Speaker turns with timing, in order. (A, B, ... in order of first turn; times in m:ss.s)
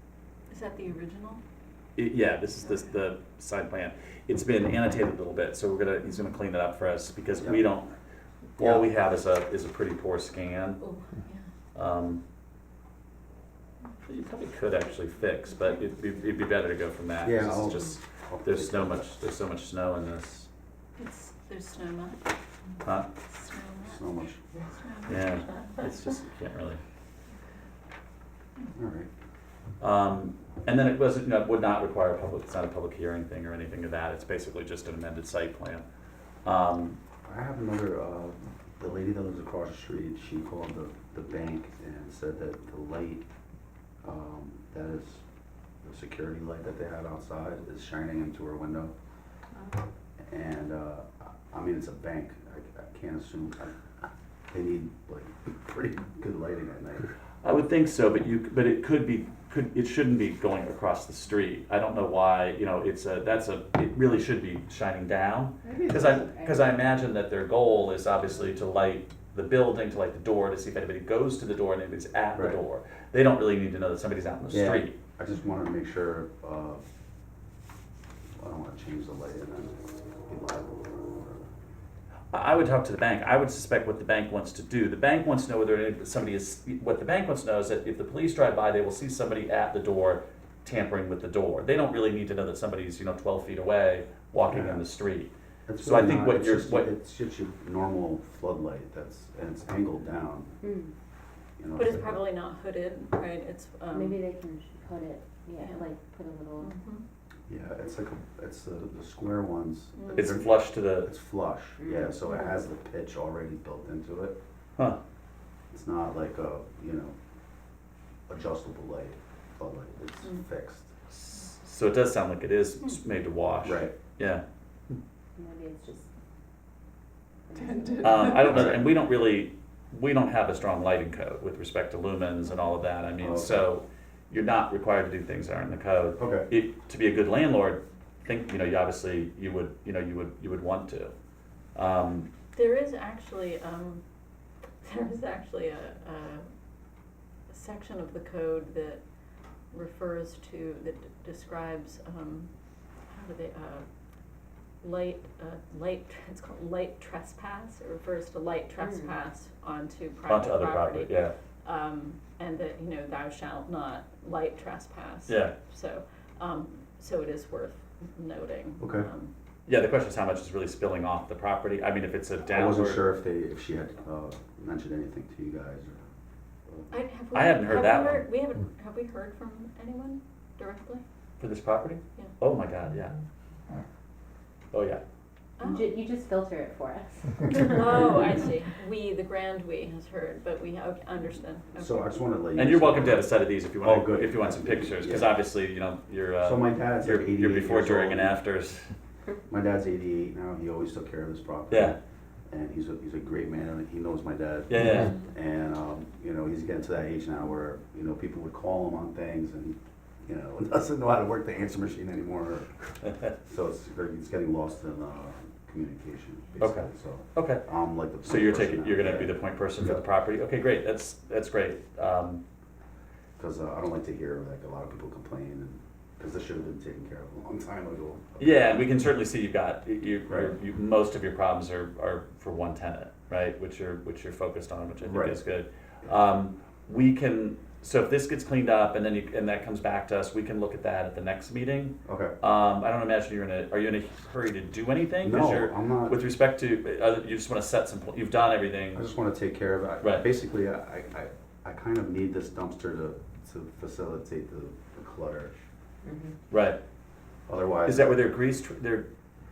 0:00.5-0:01.4 A
0:02.0-0:07.9 B
0:07.4-0:07.7 C
0:08.6-0:10.8 B
0:08.6-0:08.8 C
0:10.8-0:11.4 A
0:11.7-0:12.2 B
0:14.0-0:20.5 B
0:17.2-0:19.0 C
0:21.0-0:22.2 A
0:22.8-0:23.1 B
0:23.3-0:24.0 A
0:23.8-0:24.4 C
0:24.7-0:25.8 A
0:25.0-0:26.8 B
0:28.7-0:29.1 C
0:29.8-0:35.8 B
0:36.4-0:37.0 B
0:37.2-0:43.2 C
0:44.0-0:45.2 C
0:45.8-0:48.9 C
0:50.2-0:53.8 C
0:54.5-0:57.1 C
0:57.4-1:15.0 B
1:05.6-1:06.7 D
1:14.5-1:16.8 C
1:18.4-1:21.5 C
1:22.3-1:36.9 B
1:34.4-1:34.8 C
1:35.7-1:40.6 C
1:40.6-1:40.9 D
1:41.6-1:42.2 C
1:41.8-1:44.2 A
1:43.9-1:46.7 D
1:45.6-1:45.8 A
1:46.6-1:47.0 A
1:47.5-1:54.4 C
1:49.9-1:50.3 A
1:50.1-1:51.1 B
1:51.8-1:52.6 D
1:55.7-1:57.2 C
1:58.3-2:00.9 C
2:01.1-2:04.4 B
2:03.6-2:04.0 C
2:05.4-2:06.1 D
2:07.5-2:08.2 D
2:08.0-2:21.1 B
2:08.2-2:08.9 C
2:13.2-2:13.7 C
2:16.2-2:16.5 C
2:21.7-2:22.3 B
2:22.5-2:24.0 A
2:24.8-2:26.4 A
2:27.5-2:29.0 A
2:29.7-2:32.5 A
2:33.1-2:33.8 A
2:34.8-2:49.3 A
2:38.8-2:39.1 D
2:40.3-2:41.3 B
2:45.3-2:45.5 B
2:48.8-2:49.1 C
2:49.7-2:53.0 B
2:52.4-2:56.0 C
2:56.9-3:01.0 A
2:57.3-2:58.2 B
3:01.4-3:03.2 B
3:04.7-3:05.0 B
3:05.6-3:06.0 A
3:05.6-3:07.9 D
3:07.4-3:12.1 A
3:11.8-3:15.3 C
3:12.5-3:18.9 B
3:16.4-3:18.4 C
3:19.5-3:22.0 C
3:21.7-3:22.0 B
3:22.5-3:32.7 C
3:24.7-3:25.1 B
3:33.2-3:40.0 C
3:36.6-3:37.6 B
3:38.2-3:42.4 B
3:43.4-3:48.9 C
3:48.4-4:09.1 B
3:50.3-3:50.6 C
3:55.0-3:55.4 C
4:02.0-4:02.3 C
4:05.2-4:06.2 C
4:08.9-4:15.5 C
4:10.0-4:10.3 B
4:16.0-4:16.3 D
4:16.5-4:16.8 B
4:17.5-4:18.2 C
4:17.8-4:19.1 B